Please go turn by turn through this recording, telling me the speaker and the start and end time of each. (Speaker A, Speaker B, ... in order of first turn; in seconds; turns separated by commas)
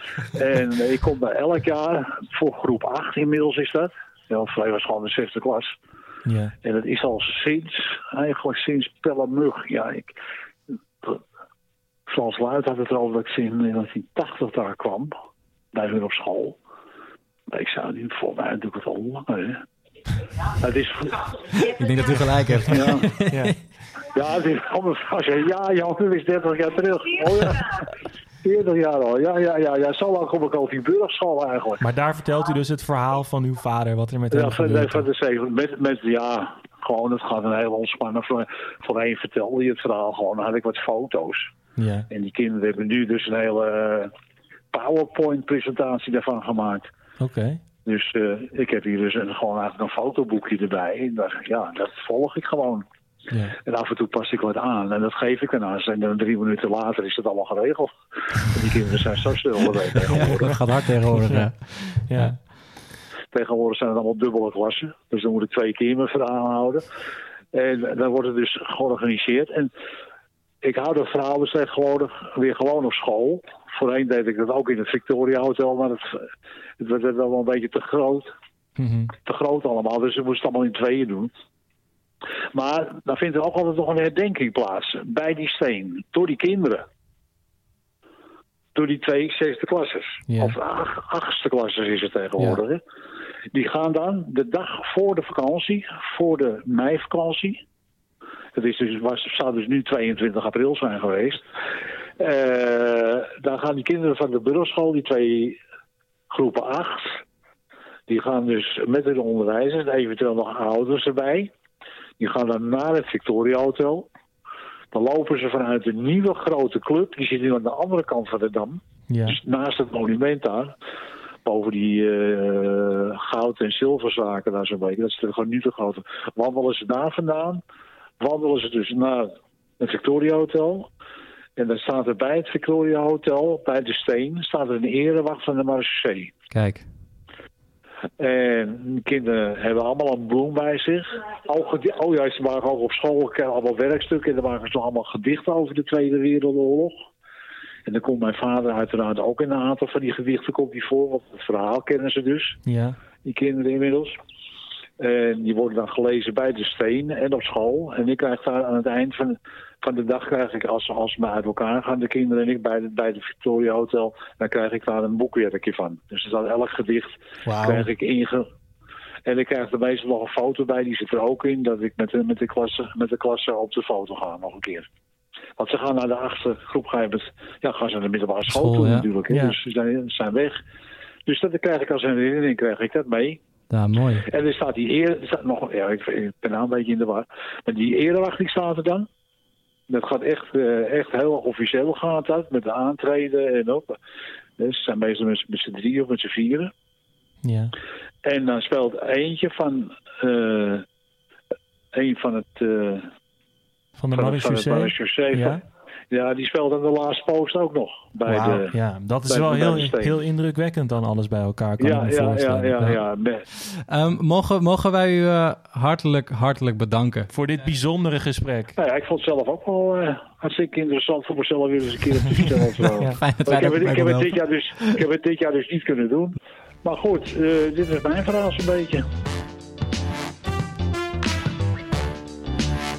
Speaker A: 0.3-5.7, Speaker B: 6.3-6.5, Speaker A: 6.6-10.2, Speaker A: 12.1-15.2, Speaker A: 15.7-16.6, Speaker A: 17.5-19.6, Speaker A: 20.6-21.3, Speaker C: 21.5-23.6, Speaker A: 22.7-23.1, Speaker B: 23.3-23.6, Speaker A: 24.1-27.9, Speaker A: 28.4-31.8, Speaker B: 31.8-35.1, Speaker A: 34.3-41.5, Speaker B: 41.8-42.1, Speaker A: 42.1-44.1, Speaker A: 44.7-46.9, Speaker B: 47.2-47.6, Speaker A: 47.9-52.9, Speaker A: 53.6-60.6, Speaker C: 60.1-62.4, Speaker B: 62.0-62.4, Speaker A: 63.3-66.8, Speaker A: 67.5-69.7, Speaker A: 70.6-76.3, Speaker A: 76.8-78.3, Speaker B: 78.8-79.1, Speaker A: 79.2-81.3, Speaker A: 82.5-86.9, Speaker A: 88.8-92.8, Speaker B: 90.3-90.5, Speaker A: 93.5-97.6, Speaker A: 98.5-101.4, Speaker A: 102.2-105.6, Speaker A: 106.3-107.2, Speaker A: 108.1-111.5, Speaker A: 112.2-114.1, Speaker A: 114.9-120.8, Speaker B: 119.1-119.4, Speaker A: 121.5-127.6, Speaker A: 128.2-130.9, Speaker A: 131.6-136.3, Speaker C: 136.5-136.8, Speaker A: 138.2-147.1, Speaker A: 147.9-152.6, Speaker B: 152.7-153.0, Speaker A: 153.2-154.2, Speaker A: 155.0-168.5, Speaker B: 167.4-167.9, Speaker A: 169.3-174.9, Speaker A: 175.6-180.6, Speaker C: 178.5-179.1, Speaker B: 179.3-179.6, Speaker A: 181.3-183.4, Speaker C: 183.7-184.3, Speaker A: 184.3-189.1, Speaker A: 189.9-194.0, Speaker A: 194.6-196.7, Speaker B: 197.4-197.8, Speaker A: 198.2-200.8, Speaker A: 201.9-203.1, Speaker B: 204.0-205.6, Speaker A: 204.2-208.7, Speaker B: 208.3-213.0, Speaker A: 209.3-210.1, Speaker A: 211.8-213.5, Speaker C: 213.6-217.3, Speaker B: 217.3-218.8, Speaker A: 218.8-229.0, Speaker C: 223.1-225.0